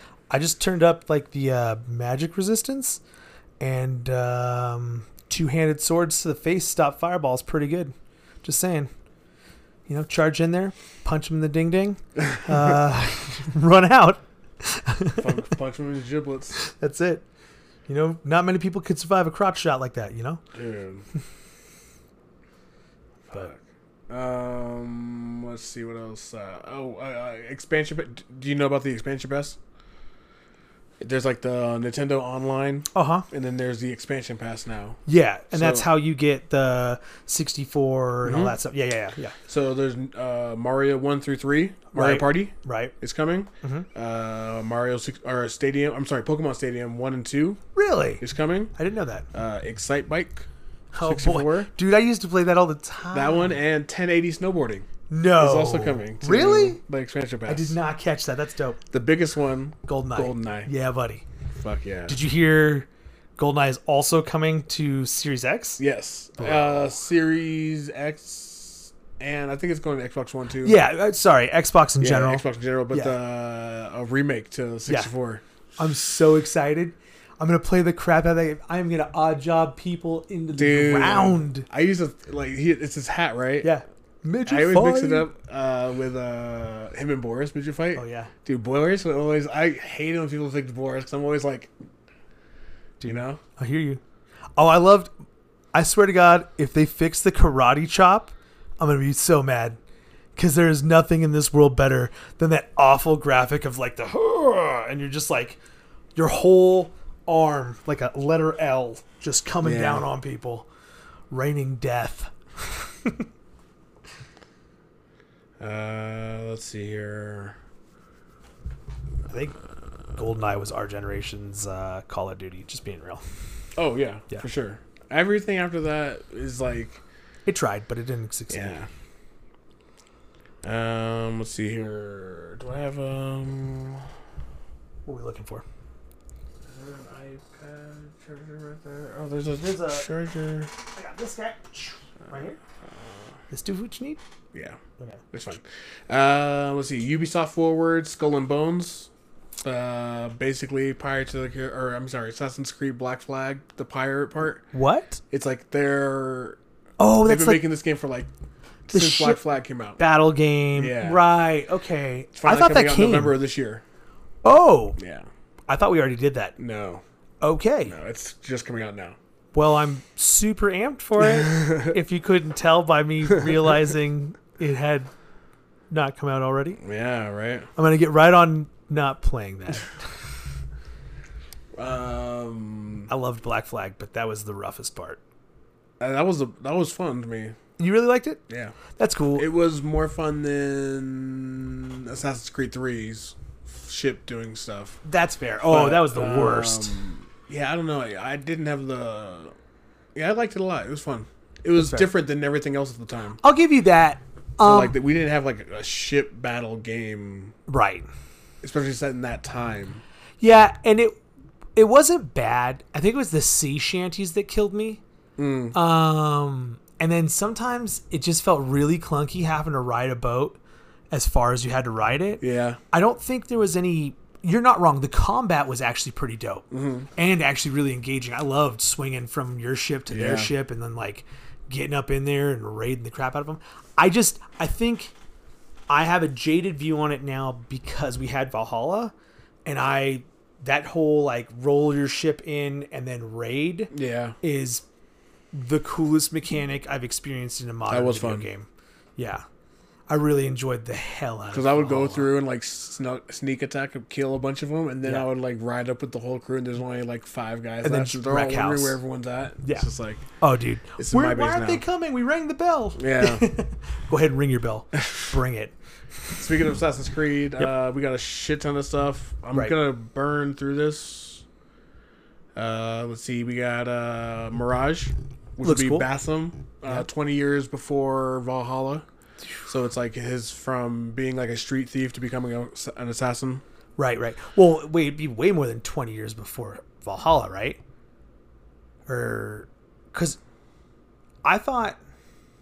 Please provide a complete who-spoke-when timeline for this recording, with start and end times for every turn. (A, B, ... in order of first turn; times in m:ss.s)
0:00.3-0:03.0 A
0:03.6-0:08.9 A
0:09.9-0:15.5 A
0:15.2-0:16.6 B
0:16.6-0:17.2 A
0:17.9-0:20.4 A
0:20.5-0:21.0 B
0:23.3-0:29.6 B
0:31.0-0:35.0 B
0:33.0-0:33.3 A
0:35.1-0:39.4 A
0:35.5-0:35.9 B
0:38.2-0:38.6 B
0:39.5-0:47.6 B
0:41.9-0:42.9 A
0:43.6-0:43.9 A
0:47.8-0:49.3 A
0:48.2-0:48.7 B
0:49.3-0:50.5 B
0:50.9-0:53.6 A
0:51.0-0:51.7 B
0:53.1-0:54.9 B
0:55.1-0:56.8 A
0:55.4-0:57.8 B
0:57.5-0:58.8 A
0:58.9-1:00.7 B
0:59.9-1:01.2 A
1:01.5-1:02.2 B
1:02.1-1:05.8 A
1:05.8-1:10.8 B
1:06.4-1:06.9 A
1:10.6-1:13.2 A
1:12.0-1:15.4 B
1:14.9-1:15.1 A
1:15.8-1:21.7 A
1:20.6-1:23.7 B
1:23.6-1:25.3 A
1:24.5-1:31.7 B
1:28.0-1:28.3 A
1:33.0-1:34.0 A
1:33.0-1:33.4 B
1:34.6-1:35.1 A
1:35.7-1:39.8 A
1:40.4-1:45.6 A
1:46.2-1:50.7 A
1:49.6-1:50.1 B
1:51.3-1:53.3 A
1:55.6-1:57.6 B
1:59.3-1:59.6 A
2:00.2-2:03.2 A
2:03.8-2:07.0 B
2:07.5-2:08.8 A
2:08.5-2:08.9 B
2:10.6-2:14.1 B
2:15.1-2:15.6 A
2:16.6-2:20.7 B
2:19.6-2:20.1 A
2:20.9-2:22.6 A
2:22.2-2:23.3 B
2:23.5-2:24.2 A
2:24.5-2:24.8 B
2:25.3-2:29.1 B
2:29.6-2:34.7 B
2:34.7-2:35.2 A
2:35.3-2:36.6 B
2:37.0-2:37.7 A
2:37.2-2:38.3 B
2:38.9-2:40.0 B
2:38.9-2:39.4 A
2:40.0-2:43.4 A
2:40.8-2:41.3 B
2:42.3-2:43.8 B
2:44.4-2:45.0 A
2:45.0-2:45.3 B
2:45.7-2:46.6 A
2:46.6-2:47.0 B
2:47.4-2:48.0 A
2:47.8-2:49.2 B
2:49.5-2:55.1 A
2:51.2-2:52.0 B
2:55.9-2:56.8 A
2:56.8-2:57.7 B
2:57.8-2:59.9 A
3:01.7-3:03.1 B
3:03.1-3:05.2 A
3:06.0-3:07.6 B
3:07.8-3:08.4 A
3:08.5-3:08.8 B
3:09.0-3:09.5 A
3:09.4-3:15.0 B
3:15.0-3:17.0 A
3:15.7-3:19.5 B
3:20.2-3:23.4 B
3:21.8-3:22.1 A
3:23.4-3:25.0 A
3:24.6-3:27.6 B
3:27.7-3:28.1 A
3:28.6-3:30.0 B
3:30.4-3:31.2 A
3:31.8-3:35.0 A
3:35.4-3:35.8 B
3:35.7-3:40.6 A
3:41.1-3:55.1 A
3:42.4-3:42.8 B
3:46.7-3:47.1 B
3:50.1-3:50.5 B
3:55.9-3:59.1 A
3:59.6-4:04.8 A
4:03.9-4:04.4 B
4:05.5-4:09.4 A
4:07.9-4:08.5 B
4:10.1-4:12.3 A
4:11.5-4:20.3 B
4:17.8-4:19.0 A
4:19.6-4:19.9 A
4:20.4-4:25.7 A
4:21.0-4:21.8 B
4:23.0-4:23.5 B
4:26.4-4:31.4 B
4:32.6-4:39.1 B
4:35.6-4:36.1 A
4:39.6-4:43.6 B
4:44.0-4:47.8 A
4:49.1-4:50.4 A
4:51.4-4:52.0 A